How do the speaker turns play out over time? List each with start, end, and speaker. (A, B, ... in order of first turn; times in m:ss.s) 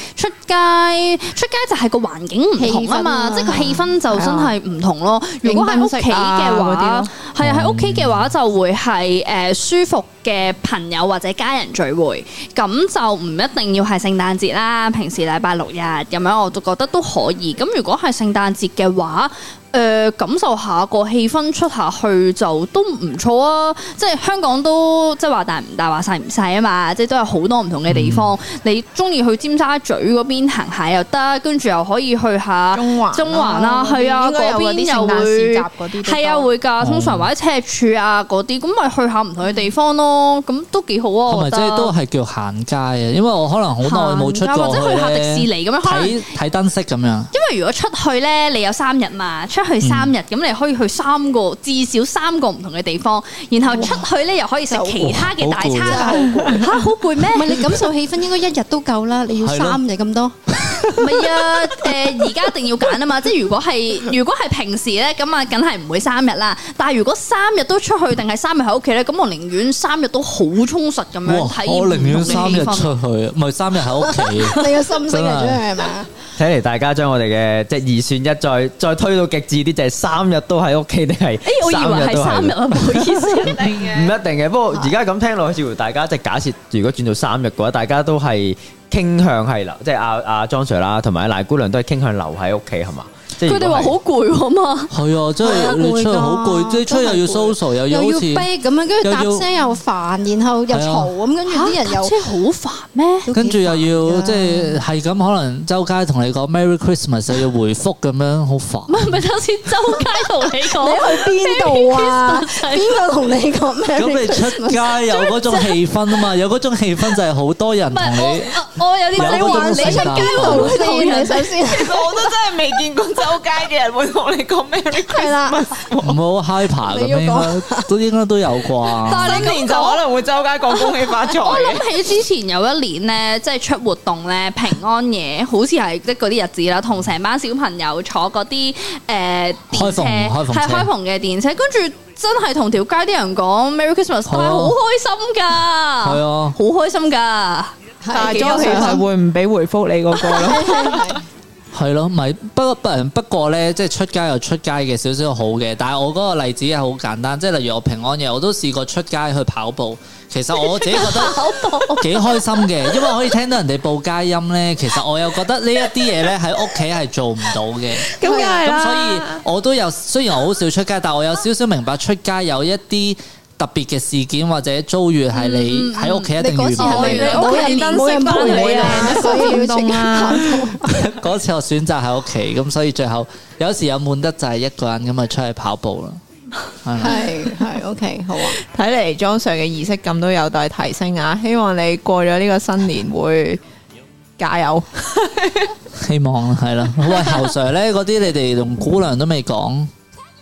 0:00.2-0:41.9 A
0:02.6-0:04.0 B
0:04.1-0:04.5 C
0:05.4-0:07.1 C
0:07.4-0:08.3 D
0:27.9-0:28.3 D
0:32.7-0:36.5 C
0:36.8-0:37.3 D
0:41.3-0:47.3 D
0:43.8-0:46.3 A
0:47.3-0:57.6 A
0:49.8-0:50.1 D
0:53.6-0:54.0 B
0:54.7-0:55.2 B
0:55.0-0:56.6 D
0:55.8-0:56.7 B
0:57.3-1:01.2 B
0:59.4-0:59.8 D
1:00.6-1:01.0 D
1:01.0-1:12.9 A
1:11.3-1:15.6 D
1:14.0-1:16.1 B
1:16.4-1:23.3 E
1:21.4-1:23.8 A
1:23.4-1:24.2 C
1:24.0-1:34.0 E
1:33.4-1:34.9 A
1:34.9-1:38.5 D
1:35.4-1:42.2 B
1:39.0-1:39.5 D
1:40.7-1:41.1 D
1:41.5-1:43.3 A
1:43.2-1:44.8 B
1:43.3-1:49.2 D
1:48.9-1:53.0 A
1:50.8-1:55.2 B
1:54.0-1:58.6 D
1:57.9-2:01.5 A
1:59.1-2:00.8 D
1:59.2-2:02.2 B
2:01.2-2:06.2 C
2:05.1-2:05.6 B
2:06.0-2:09.5 D
2:06.9-2:07.9 B
2:09.0-2:10.0 A
2:09.1-2:11.9 C
2:11.4-2:29.0 A
2:19.7-2:20.9 D
2:24.3-2:24.8 D
2:26.0-2:26.6 D
2:28.0-2:29.0 B
2:28.1-2:31.2 C
2:30.2-2:31.2 B
2:31.7-2:41.4 D
2:40.7-2:42.4 A
2:42.0-2:57.4 D
2:48.2-2:49.4 C
2:48.2-2:48.6 B
2:55.3-2:59.6 A
2:56.4-3:00.9 B
2:56.9-3:00.8 C
3:00.9-3:06.2 D
3:06.8-3:07.2 D
3:07.0-3:08.6 B
3:08.7-3:13.6 C
3:14.4-3:15.7 C
3:16.0-3:19.9 D